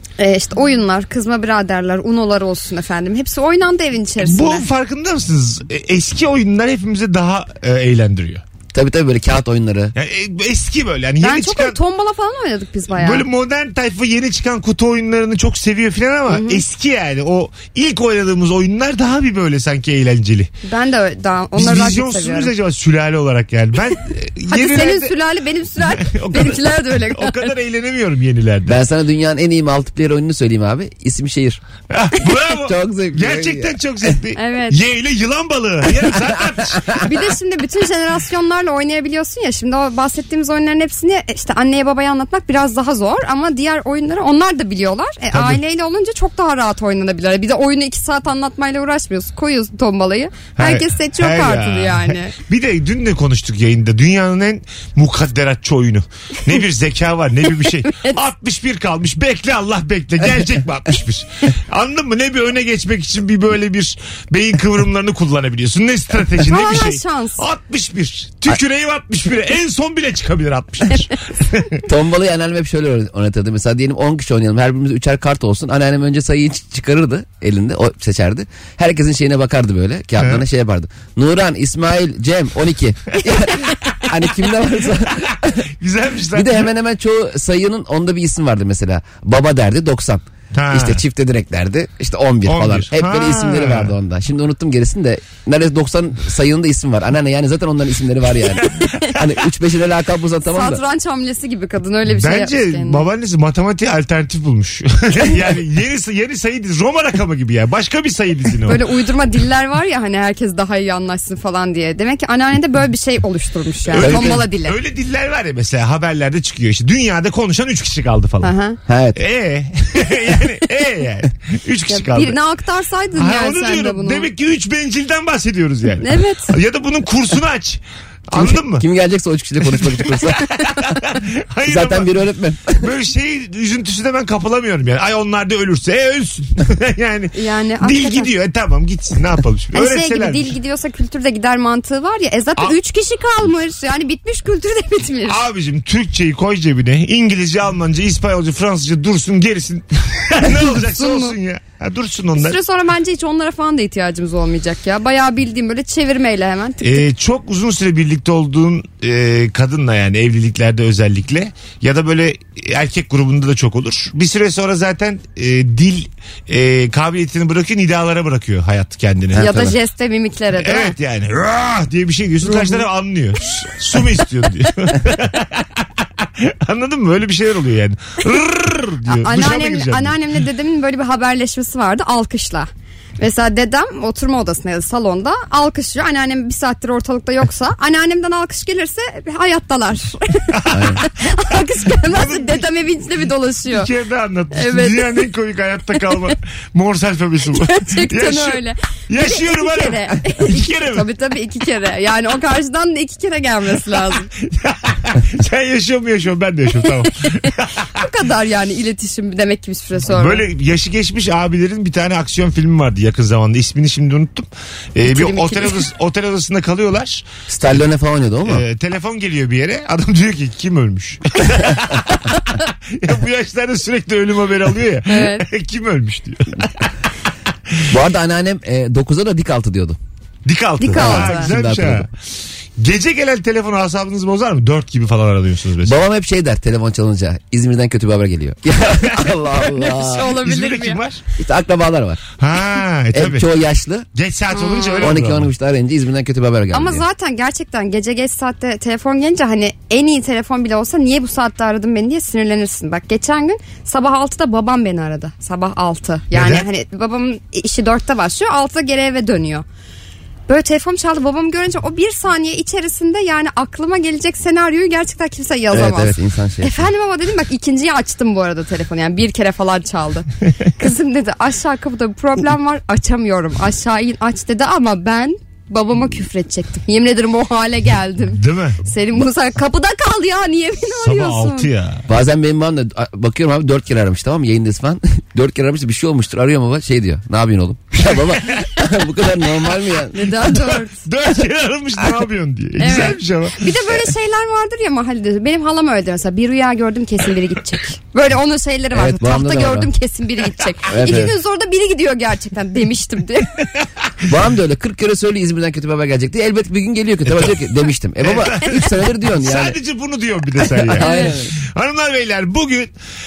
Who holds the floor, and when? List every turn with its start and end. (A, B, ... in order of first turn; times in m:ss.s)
0:00.2-0:04.6 A
0:04.2-0:08.4 B
0:08.7-0:09.9 C
0:09.9-0:11.8 B
0:11.2-0:13.2 A
0:12.9-0:20.5 B
0:16.3-0:16.6 A
0:20.6-0:22.5 A
0:21.5-0:25.1 B
0:24.5-0:27.5 A
0:25.8-0:28.8 B
0:28.6-0:31.6 C
0:31.9-0:37.0 B
0:32.6-0:34.2 C
0:34.4-0:34.8 A
0:37.0-0:52.3 A
0:45.3-0:45.6 B
0:50.6-1:11.8 B
1:06.4-1:07.4 A
1:11.9-1:25.6 C
1:25.8-1:26.6 B
1:26.3-1:40.8 C
1:30.5-1:31.0 B
1:32.4-1:33.9 B
1:40.4-1:43.0 A
1:42.1-1:48.8 B
1:48.7-1:54.8 A
1:53.9-1:58.5 B
1:53.9-1:54.5 C
1:58.4-1:58.8 A
1:58.9-1:59.2 C
1:59.2-2:02.4 B
2:01.9-2:04.3 A
2:03.2-2:08.8 B
2:06.0-2:06.5 A
2:08.3-2:10.9 C
2:09.6-2:12.1 B
2:11.7-2:12.9 C
2:12.8-2:20.5 B
2:17.3-2:18.3 A
2:19.7-2:25.4 A
2:25.3-2:32.6 B
2:30.7-2:31.4 A
2:32.4-2:37.0 A
2:36.8-2:49.5 B
2:49.3-2:49.8 C
2:49.4-2:50.9 A
2:50.6-3:00.2 B
2:52.4-2:52.8 A
2:59.1-3:13.9 A
3:10.5-3:11.1 B
3:10.7-3:11.0 C
3:12.0-3:12.7 B
3:13.7-3:21.0 B
3:14.5-3:15.3 A
3:17.5-3:24.3 A
3:24.4-3:27.9 B
3:28.0-3:30.4 A
3:30.0-3:37.3 B
3:35.1-3:35.8 A
3:37.5-3:38.6 C
3:38.4-3:46.9 B
3:45.1-3:45.4 A
3:47.9-3:50.0 C
3:50.4-3:52.1 B
3:50.8-3:51.5 A
3:50.9-3:52.1 C
3:52.8-3:56.0 B
3:55.8-4:00.4 C
3:59.0-3:59.3 B
3:59.6-4:01.0 A
4:00.3-4:01.2 B
4:01.4-4:02.2 C
4:02.4-4:03.4 B
4:03.1-4:04.1 C
4:04.1-4:05.5 B
4:04.5-4:05.1 A
4:05.0-4:07.0 C
4:06.7-4:19.6 A
4:16.3-4:16.6 B
4:20.5-4:41.7 A
4:25.7-4:26.9 C
4:38.3-4:38.8 B
4:41.0-4:42.1 B
4:42.1-4:50.3 C
4:50.1-4:51.0 A
4:50.5-4:53.7 B
4:52.8-5:03.5 A
4:58.9-4:59.9 C
5:00.9-5:01.3 C
5:04.3-5:09.8 C
5:07.3-5:07.5 B
5:08.2-5:12.9 B
5:10.8-5:11.5 C
5:11.0-5:11.3 A